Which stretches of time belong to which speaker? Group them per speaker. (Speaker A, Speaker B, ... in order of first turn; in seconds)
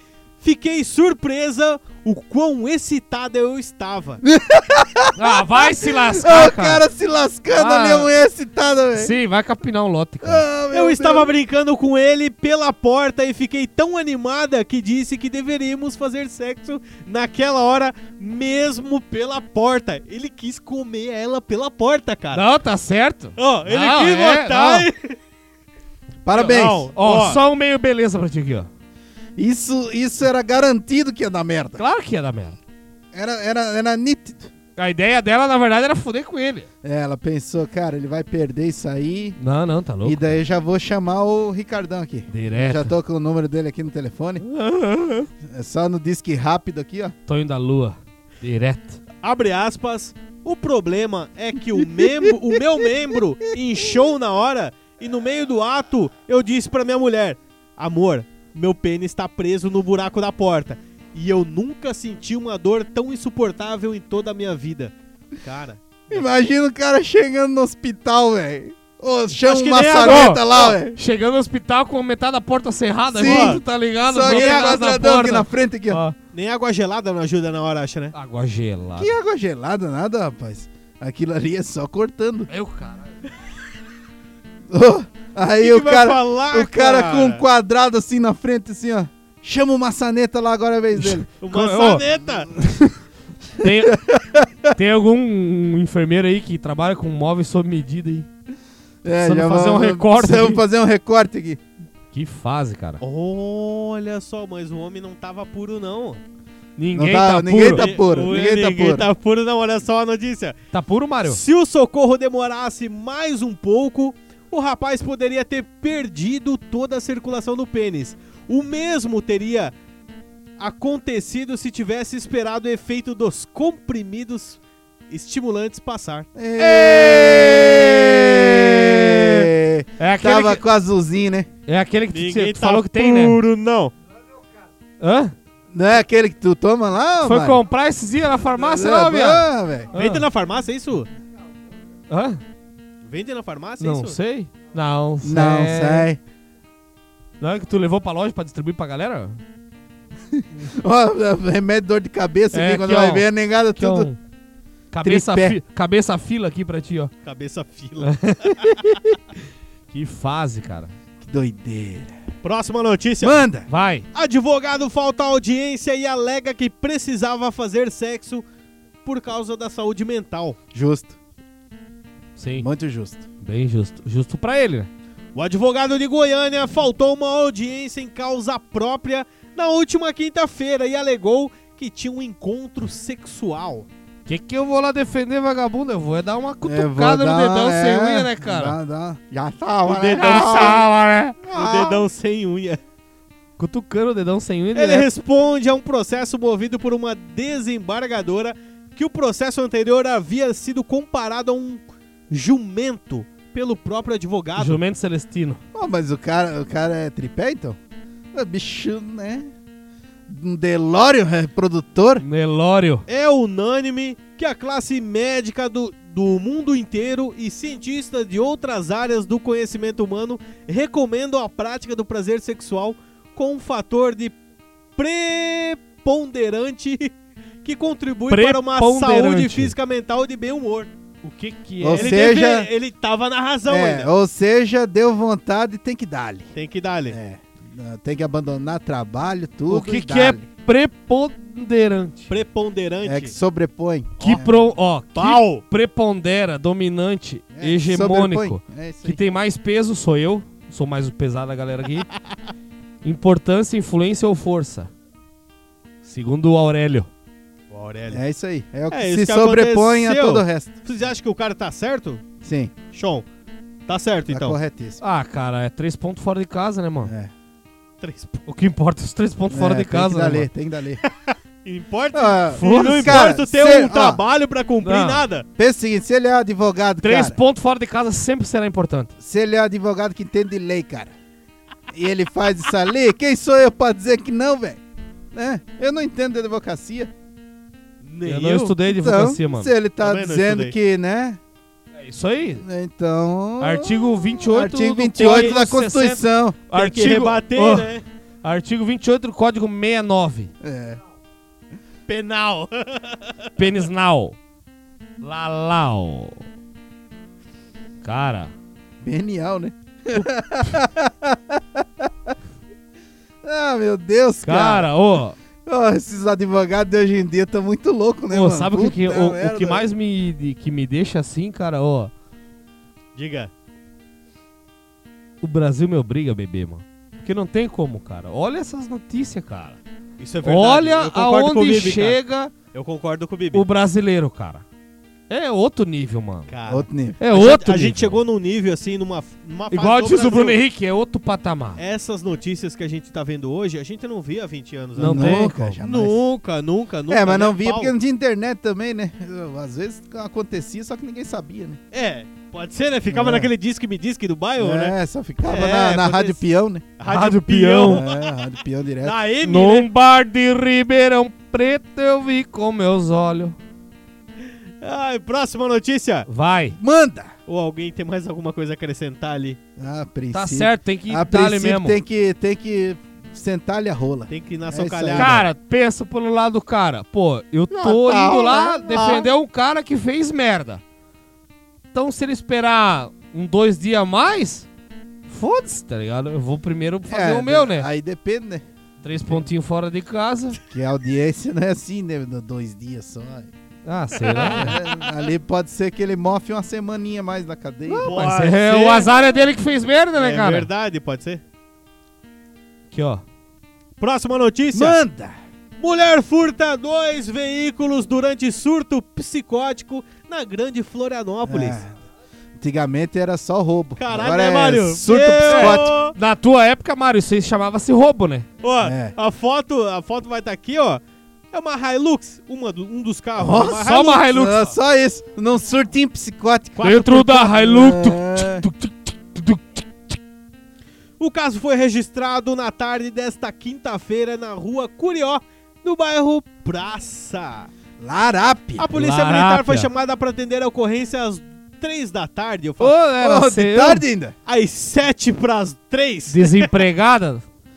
Speaker A: 0.4-4.2, 10.7-22.4, 23.4-25.2, 26.3-27.4, 49.2-66.3, 69.4-70.8, 73.2-73.6, 74.2-74.8, 76.3-78.2, 85.6-87.4, 91.4-92.5, 103.0-106.2, 107.7-110.6, 111.2-119.7, 120.6-124.6, 125.1-126.3, 132.1-133.9, 139.9-141.1, 143.1-144.2, 157.2-158.8, 162.4-163.4, 164.1-168.4, 169.1-170.6, 175.3-183.9, 189.8-190.9, 191.4-192.8, 194.7-204.8, 213.1-224.4, 225.0-230.9, 231.9-234.1, 236.6-237.2, 242.3-243.3, 245.1-245.6, 257.7-258.2, 258.9-262.2, 262.9-263.3, 263.9-264.6, 268.0-268.4, 271.0-275.5, 288.0-288.7, 290.0-290.8, 295.2-295.6, 296.7-298.0, 302.1-303.5, 323.2-323.5, 330.2-332.2, 332.7-333.6, 336.5-340.6, 341.8-347.9, 351.9-356.4, 357.0-358.2, 359.0-359.9, 364.5-366.3, 367.5-369.6, 374.3-375.4, 394.2-394.9, 398.0-399.3, 400.1-401.4, 404.0-405.0, 405.8-411.8, 414.0-416.1, 418.6-421.0, 421.5-424.3, 426.8-427.3, 431.2-437.7, 438.8-443.0, 444.5-446.8
Speaker B: 4.2-9.2, 10.2-11.3, 26.2-26.9, 29.4-31.8, 33.1-34.5, 36.8-39.4, 40.0-44.5, 45.4-47.1, 51.8-52.9, 66.1-71.0, 73.1-76.0, 79.0-82.5, 84.7-91.3, 93.6-94.8, 99.0-101.6, 106.9-109.1, 126.3-131.5, 135.7-137.6, 138.6-139.9, 145.2-146.2, 150.3-154.1, 155.0-155.6, 161.2-162.2, 163.2-163.7, 170.7-171.1, 172.6-173.2, 186.6-190.8, 191.5-192.0, 205.8-207.8, 208.3-209.5, 210.3-212.2, 231.8-232.7, 233.7-236.5, 237.1-240.4, 243.0-244.5, 247.5-249.2, 258.1-260.7, 262.4-262.7, 264.3-265.0, 267.0-267.3, 269.5-271.0, 272.1-274.2, 275.6-277.4, 279.2-281.1, 281.9-284.8, 285.3-287.1, 288.9-291.4, 292.6-296.6, 300.6-301.0, 309.0-312.4, 313.4-314.9, 315.7-319.9, 336.7-337.2, 345.0-346.2, 347.1-351.8, 353.1-353.5, 354.6-356.9, 357.9-359.2, 366.8-367.3, 369.8-375.5, 377.7-379.3, 387.1-388.7, 390.7-393.5, 394.5-398.1, 404.7-405.4, 411.4-411.9, 412.6-415.9, 418.8-419.1, 423.4-428.7, 438.0-438.9, 443.2-444.4
Speaker C: 5.2-6.8, 7.5-8.1, 8.9-10.4, 22.3-24.9, 27.0-28.7, 31.8-32.6, 34.8-36.7, 39.4-40.4, 42.3-42.9, 44.5-45.3, 47.3-49.0, 70.0-76.2, 78.1-79.1, 82.5-83.0, 91.0-92.0, 92.6-92.9, 93.6-94.0, 94.7-98.3, 99.1-100.6, 102.1-103.0, 106.8-107.9, 110.7-111.4, 126.6-130.6, 131.7-133.4, 135.0-135.3, 137.2-140.3, 142.1-142.4, 143.8-146.1, 147.4-149.4, 152.5-154.2, 154.9-157.1, 158.0-159.2, 159.9-160.9, 163.7-164.1, 172.4-172.7, 173.4-174.9, 184.3-188.8, 190.2-191.4, 193.6-195.1, 204.6-205.6, 212.2-213.1, 228.3-229.7, 231.2-232.2, 239.7-242.3, 244.2-252.1, 253.0-254.9, 256.0-257.1, 265.0-267.1, 268.5-270.5, 272.7-273.2, 274.8-275.2, 277.0-279.1, 288.3-289.7, 292.0-292.6, 293.6-297.9, 298.4-300.5, 303.6-304.4, 305.2-306.4, 308.0-308.5, 314.4-315.4, 318.3-322.1, 325.4-329.8, 330.4-332.5, 333.5-334.6, 335.3-336.5, 337.2-338.2, 339.7-341.8, 345.0-345.7, 357.1-358.0, 359.4-363.6, 366.3-366.8, 370.3-372.0, 375.1-380.8, 381.9-384.7, 385.3-387.9, 389.0-390.6, 393.9-394.8, 397.9-400.7, 402.9-403.2, 415.5-418.5, 423.7-424.7, 426.8-429.8, 438.9-439.9, 442.8-444.0, 446.3-447.4